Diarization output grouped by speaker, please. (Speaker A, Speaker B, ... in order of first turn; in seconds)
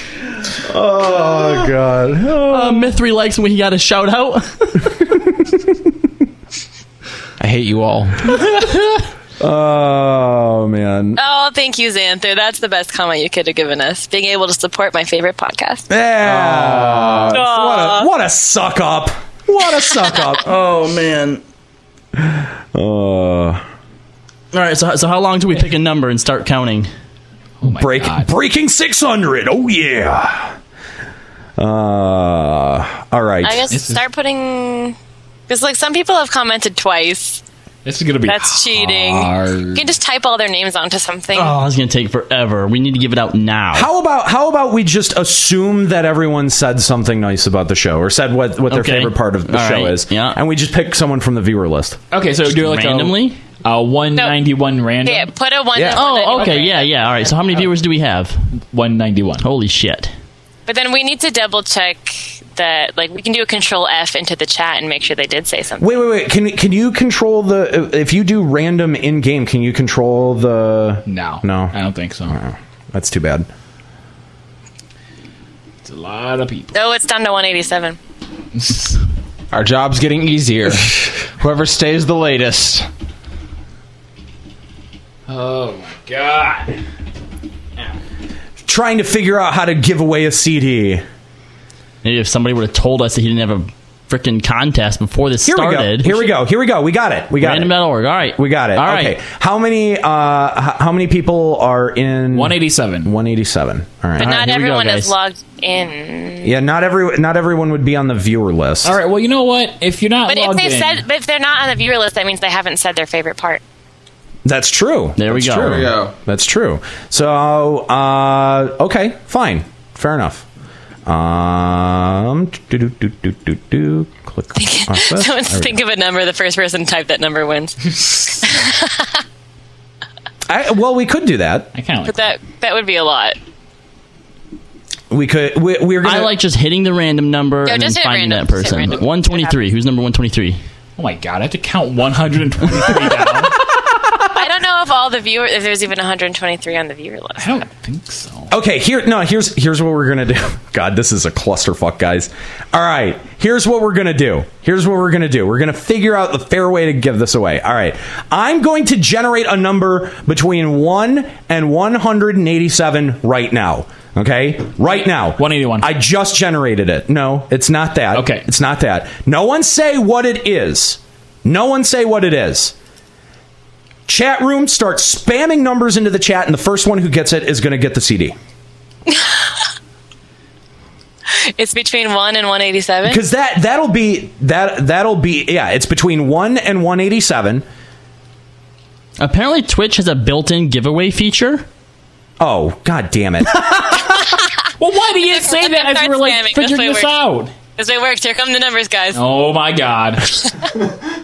Speaker A: 0.6-3.0, 9.4-11.2, 15.9-20.4, 22.2-23.6, 27.8-30.6, 31.6-33.6, 43.7-52.0, 55.7-56.0, 65.8-71.7, 72.3-73.5, 88.7-91.0, 95.4-97.8, 98.3-104.5, 106.4-109.0, 114.4-120.4, 121.0-125.8, 130.5-131.7, 135.1-136.3, 148.5-172.7, 174.1-178.3, 183.0-187.6, 192.4-193.6
Speaker B: 2.5-5.0, 20.4-21.4, 24.5-26.9, 41.3-43.9, 48.7-50.4, 52.4-53.4, 55.9-58.4, 59.4-60.1, 92.0-96.3, 97.4-99.2, 104.2-105.1, 115.2-115.8, 136.0-140.6, 189.2-191.7
Speaker C: 7.4-8.3, 16.7-17.3, 79.5-82.9, 115.5-116.1
Speaker D: 11.2-15.9, 17.3-18.1, 33.4-35.0, 35.5-37.4, 38.2-41.6, 55.0-57.5, 60.7-66.0, 76.7-78.0, 104.2-106.5, 110.3-113.6, 124.5-129.1, 132.1-133.4, 137.7-139.5, 144.3-147.6, 181.3-183.2, 195.3-197.2, 197.8-199.2
Speaker E: 27.6-28.3, 33.7-34.0, 37.8-39.9, 52.1-55.3, 58.7-59.4, 71.1-72.4, 75.8-76.7, 78.5-79.0, 85.3-86.8, 102.3-103.1, 108.8-111.0, 131.7-132.3, 141.0-143.6, 147.4-148.5, 165.4-165.9, 168.1-168.4, 194.8-197.5, 199.1-200.4